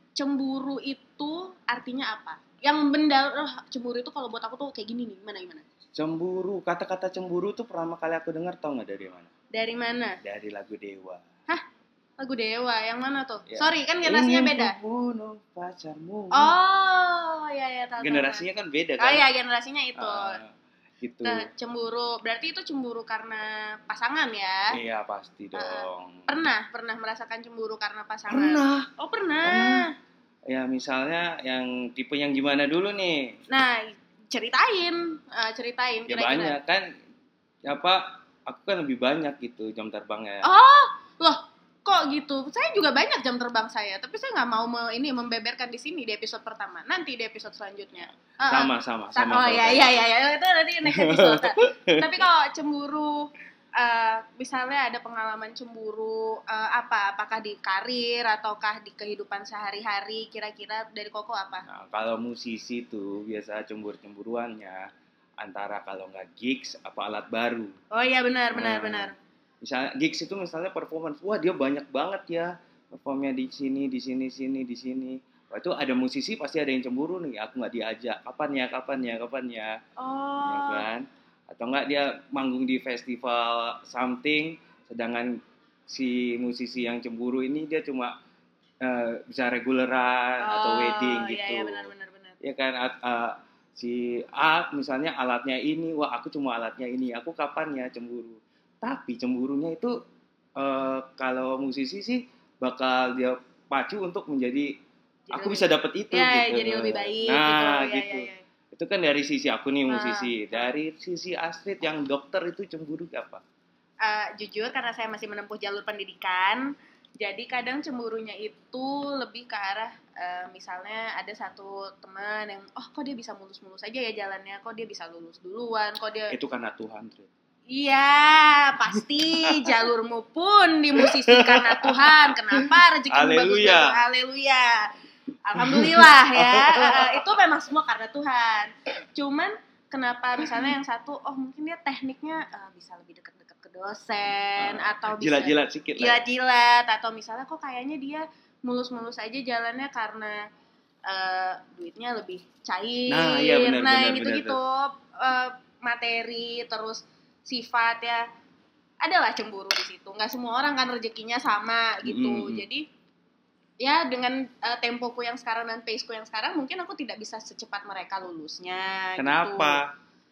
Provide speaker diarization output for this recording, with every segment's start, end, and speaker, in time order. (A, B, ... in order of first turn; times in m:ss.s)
0:00.2-0:05.7 A
0:05.9-0:09.3 B
0:09.5-0:10.2 A
0:10.2-0:11.2 B
0:12.2-0:14.8 A
0:13.5-0:16.5 B
0:16.3-0:18.4 A
0:18.0-0:19.2 B
0:19.0-0:20.4 A
0:20.0-0:21.5 B
0:21.2-0:24.8 A
0:24.7-0:26.3 B
0:25.5-0:29.9 A
0:28.3-0:28.9 B
0:29.4-0:29.8 B
0:30.5-0:33.4 B
0:33.5-0:36.6 A
0:36.1-0:37.0 B
0:37.6-0:40.5 B
0:40.4-1:01.7 A
0:48.5-0:50.0 B
0:50.8-0:52.2 B
1:01.7-1:07.7 B
1:07.9-1:09.1 A
1:08.5-1:19.8 B
1:20.0-1:20.8 A
1:20.4-1:28.2 B
1:28.8-1:31.9 B
1:30.4-1:32.4 A
1:32.4-1:40.0 B
1:40.6-1:44.8 B
1:45.3-1:48.4 A
1:45.3-1:53.4 B
1:49.9-1:50.6 A
1:54.0-2:06.3 A
2:06.3-2:07.3 B
2:07.7-2:14.9 A
2:09.0-2:09.7 B
2:11.0-2:14.0 B
2:15.4-2:30.5 A
2:15.6-2:17.2 B
2:24.6-2:26.3 B
2:31.1-2:38.2 A
2:33.1-2:34.6 B
2:39.0-2:42.8 A
2:42.0-2:42.6 B
2:43.8-2:49.8 A
2:49.2-2:49.9 B